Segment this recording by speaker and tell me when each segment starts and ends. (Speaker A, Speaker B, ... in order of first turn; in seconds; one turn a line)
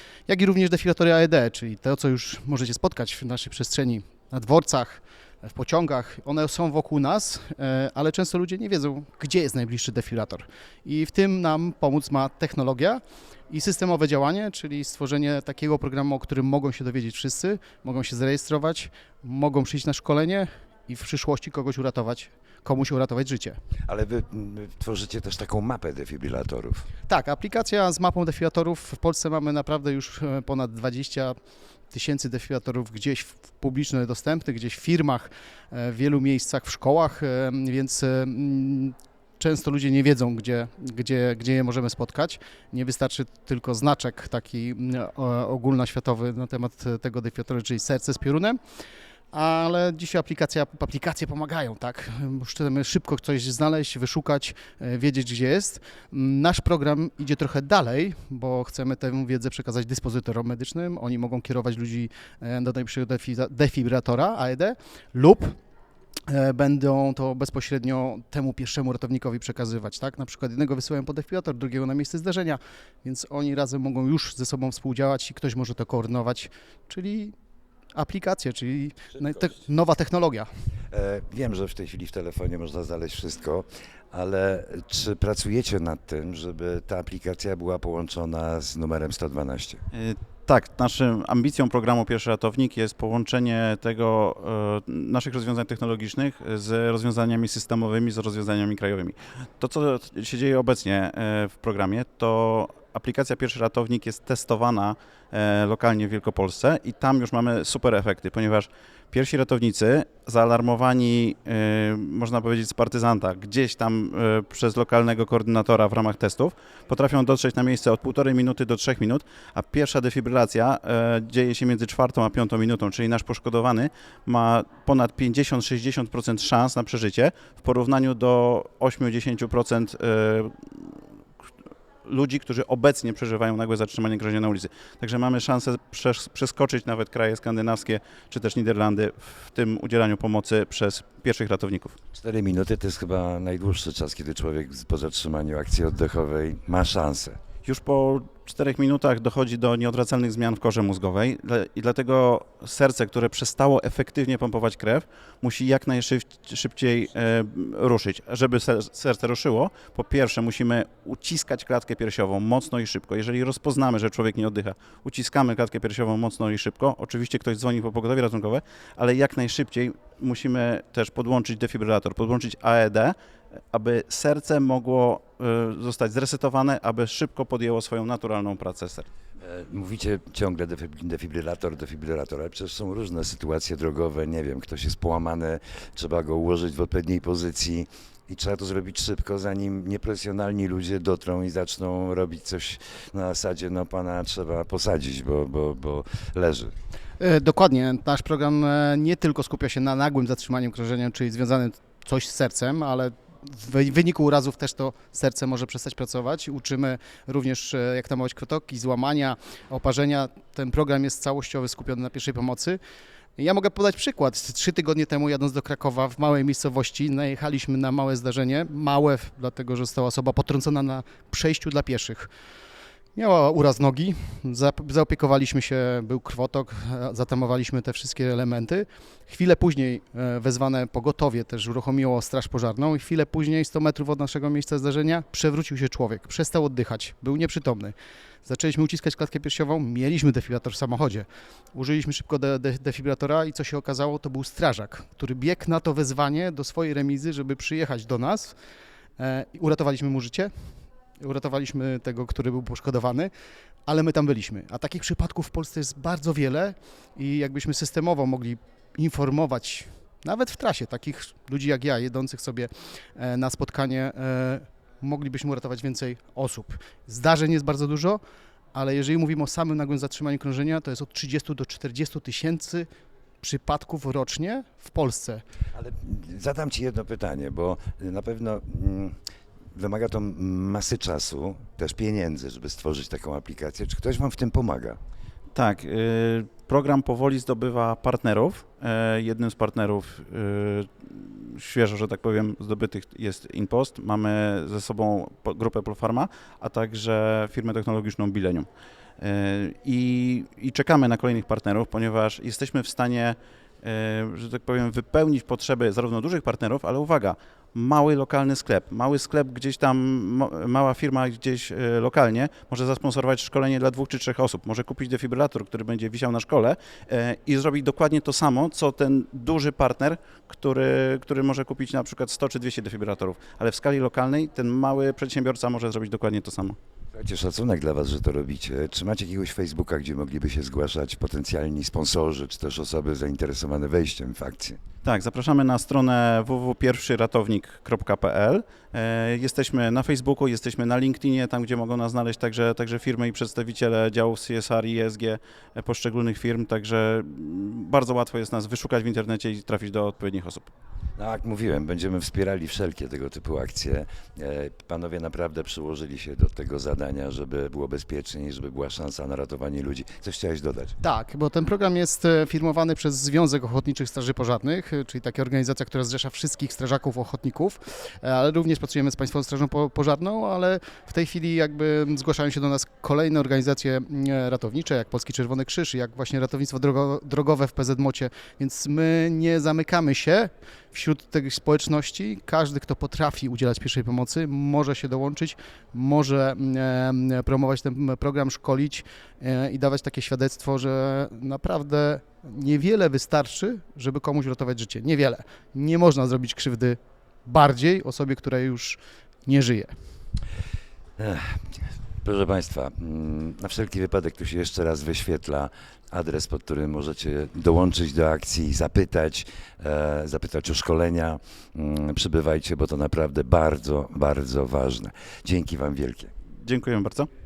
Speaker A: 0.3-23.6
Speaker B: 23.9-26.9
Speaker A: 27.1-31.4
Speaker A: 31.9-48.6
Speaker A: 49.3-65.6
Speaker A: 66.3-77.3
Speaker A: 77.9-80.5
Speaker B: 80.9-89.8
Speaker C: 89.9-131.0
Speaker C: 132.0-142.0
Speaker B: 142.1-147.4
Speaker C: 147.6-173.1
Speaker C: 173.7-179.1
Speaker B: 179.4-196.7
Speaker A: 197.2-212.8
Speaker A: 213.4-222.3
Speaker A: 223.1-248.5
Speaker A: 249.2-253.3
Speaker A: 253.9-268.2
Speaker A: 268.7-272.9
Speaker A: 273.4-275.4
Speaker B: 275.7-279.1
Speaker B: 279.7-285.0
Speaker C: 285.5-298.7
Speaker C: 299.2-326.8
Speaker B: 327.1-334.8
Speaker C: 335.0-350.7
Speaker B: 351.2-360.9
Speaker A: 361.0-400.0
Speaker B: 401.2-416.3
Speaker C: 416.6-417.3